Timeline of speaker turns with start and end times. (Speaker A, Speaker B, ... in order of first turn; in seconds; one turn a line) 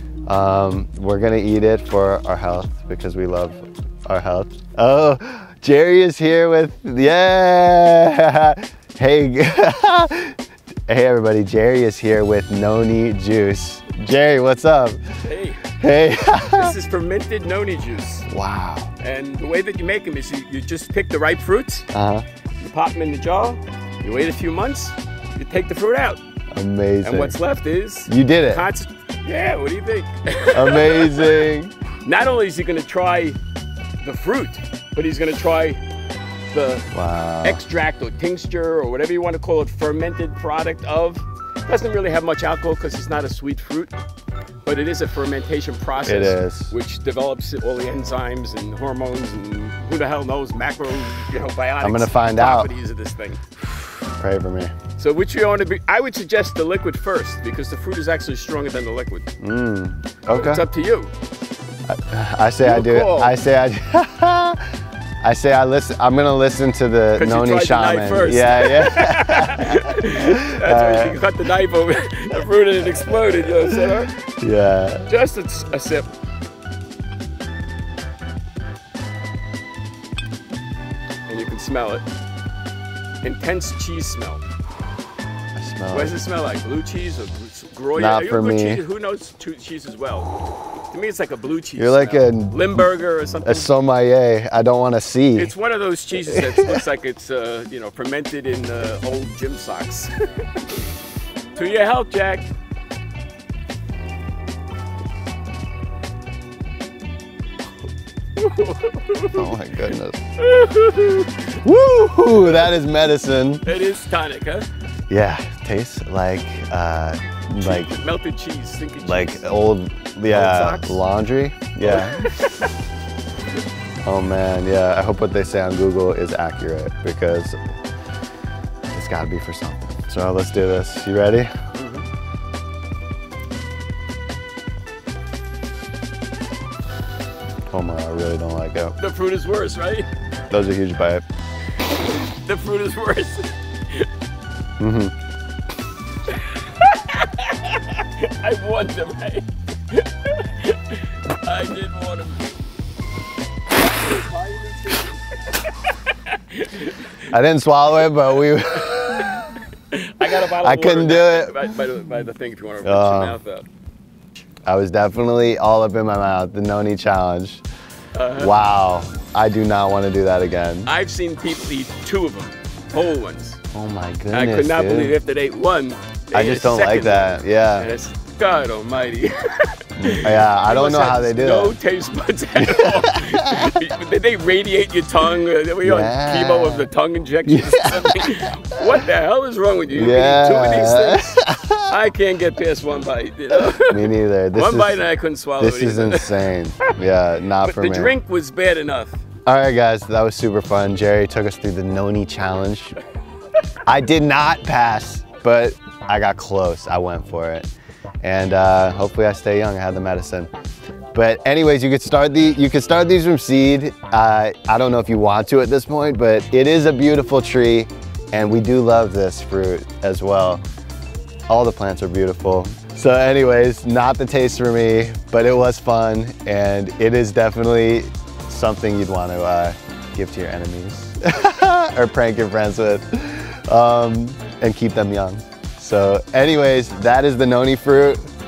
Speaker A: 0.3-15.0
Speaker B: 15.2-15.8
Speaker A: 15.6-16.7
Speaker B: 16.4-18.3
Speaker A: 18.3-18.9
Speaker B: 19.0-21.9
Speaker A: 21.9-22.2
Speaker B: 22.6-26.2
Speaker A: 26.5-27.4
Speaker B: 27.0-31.5
Speaker A: 28.1-28.7
Speaker A: 30.5-31.8
Speaker B: 32.0-33.4
Speaker B: 34.0-35.8
Speaker B: 36.5-36.9
Speaker A: 36.9-37.6
Speaker B: 37.4-43.9
Speaker B: 44.6-53.4
Speaker A: 46.0-46.7
Speaker A: 51.8-52.7
Speaker A: 53.6-54.8
Speaker B: 55.0-59.3
Speaker A: 59.4-60.6
Speaker B: 60.3-61.1
Speaker A: 61.9-71.2
Speaker B: 62.6-63.4
Speaker B: 67.1-74.2
Speaker A: 73.6-75.1
Speaker B: 75.1-76.1
Speaker B: 81.3-82.0
Speaker B: 83.2-84.4
Speaker A: 85.5-86.2
Speaker B: 85.9-90.3
Speaker A: 88.0-88.8
Speaker B: 90.9-93.7
Speaker A: 91.8-92.9
Speaker A: 93.4-95.5
Speaker B: 95.3-100.7
Speaker A: 96.2-96.9
Speaker B: 101.5-102.5
Speaker B: 108.4-109.6
Speaker A: 109.3-110.2
Speaker B: 110.4-111.5
Speaker A: 111.6-113.7
Speaker B: 113.7-114.7
Speaker A: 115.1-117.9
Speaker B: 117.6-119.5
Speaker A: 119.0-122.3
Speaker B: 120.3-121.0
Speaker B: 121.8-122.7
Speaker A: 124.0-127.6
Speaker A: 128.9-131.5
Speaker B: 131.8-132.1
Speaker A: 137.7-139.0
Speaker B: 139.0-140.1
Speaker A: 140.5-141.2
Speaker B: 142.2-144.1
Speaker A: 144.8-145.1
Speaker B: 146.3-152.5
Speaker B: 153.7-157.2
Speaker A: 157.3-159.4
Speaker B: 158.9-163.7
Speaker A: 160.3-161.6
Speaker A: 162.8-163.4
Speaker A: 164.7-167.6
Speaker B: 168.1-168.6
Speaker A: 168.4-170.9
Speaker B: 170.8-173.6
Speaker A: 173.7-175.2
Speaker B: 174.3-196.4
Speaker A: 176.3-177.9
Speaker A: 180.0-181.8
Speaker A: 182.6-183.8
Speaker A: 185.8-186.9
Speaker A: 187.4-189.0
Speaker A: 189.9-191.9
Speaker A: 193.7-195.0
Speaker A: 195.6-198.2
Speaker B: 197.6-199.2
Speaker A: 199.4-203.0
Speaker A: 203.9-207.7
Speaker A: 208.2-210.5
Speaker A: 211.1-220.6
Speaker A: 221.5-238.2